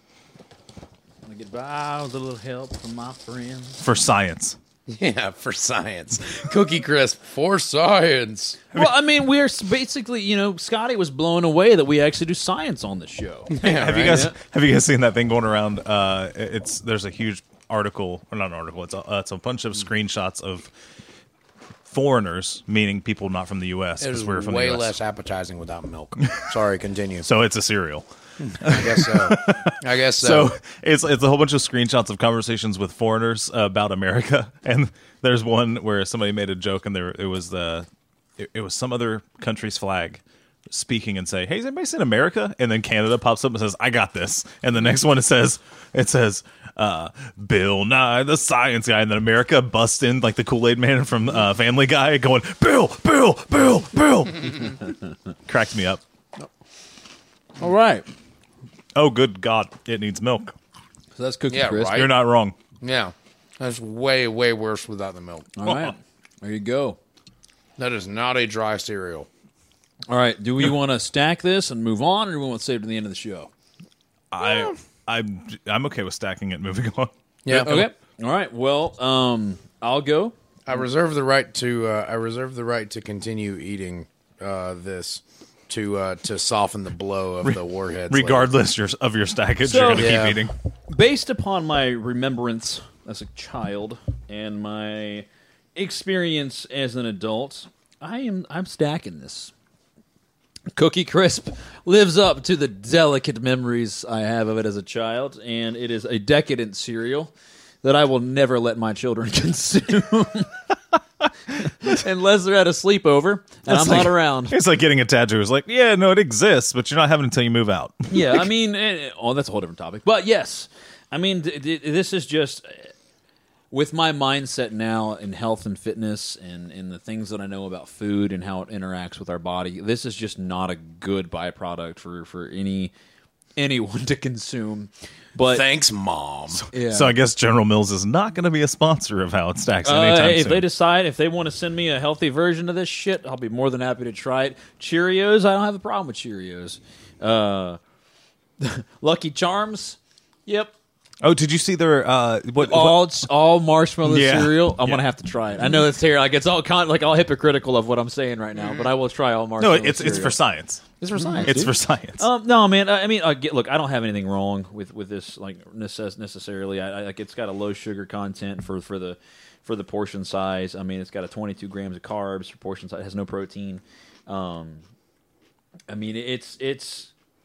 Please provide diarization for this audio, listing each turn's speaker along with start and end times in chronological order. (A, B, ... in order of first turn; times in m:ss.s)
0:01.2-0:03.8 A
0:03.8-0:04.6 B
0:04.9-0:08.6 C
0:08.7-0:14.3 A
0:13.5-0:14.3 C
0:13.6-0:20.7 B
0:21.8-0:24.9 B
0:24.0-0:27.3 C
0:27.2-0:28.0 B
0:28.4-0:30.5 C
0:28.6-0:37.9 B
0:38.4-0:54.7 B
0:55.4-0:56.0 B
0:57.6-0:58.1 A
0:58.9-1:00.5 B
1:01.1-1:02.0 A
1:01.5-1:02.1 C
1:01.9-1:02.5 B
1:02.8-1:05.5 C
1:05.6-1:07.0 A
1:05.6-1:05.9 B
1:07.8-1:09.3 C
1:10.1-1:13.5 A
1:14.3-1:17.9 B
1:14.4-1:14.7 C
1:17.4-1:17.8 C
1:17.6-1:20.3 A
1:20.7-1:28.5 C
1:28.1-1:30.5 B
1:29.6-1:30.2 A
1:29.9-1:30.4 C
1:30.9-1:39.5 A
1:40.7-1:47.3 A
1:47.8-1:50.6 A
1:51.8-1:54.6 A
1:53.7-1:58.4 B
1:58.1-2:02.9 A
2:03.7-2:12.9 A
2:13.6-2:15.6 A
2:15.4-2:16.6 C
2:16.7-2:17.1 A
2:16.8-2:20.6 B
2:19.8-2:27.8 A
2:28.6-2:30.7 A
2:31.2-2:33.1 B
2:32.6-2:40.4 A
2:34.0-2:35.0 B
2:39.6-2:40.8 B
2:41.0-2:54.8 A
2:41.1-2:41.6 C
2:41.4-2:42.2 B
2:55.9-2:57.1 A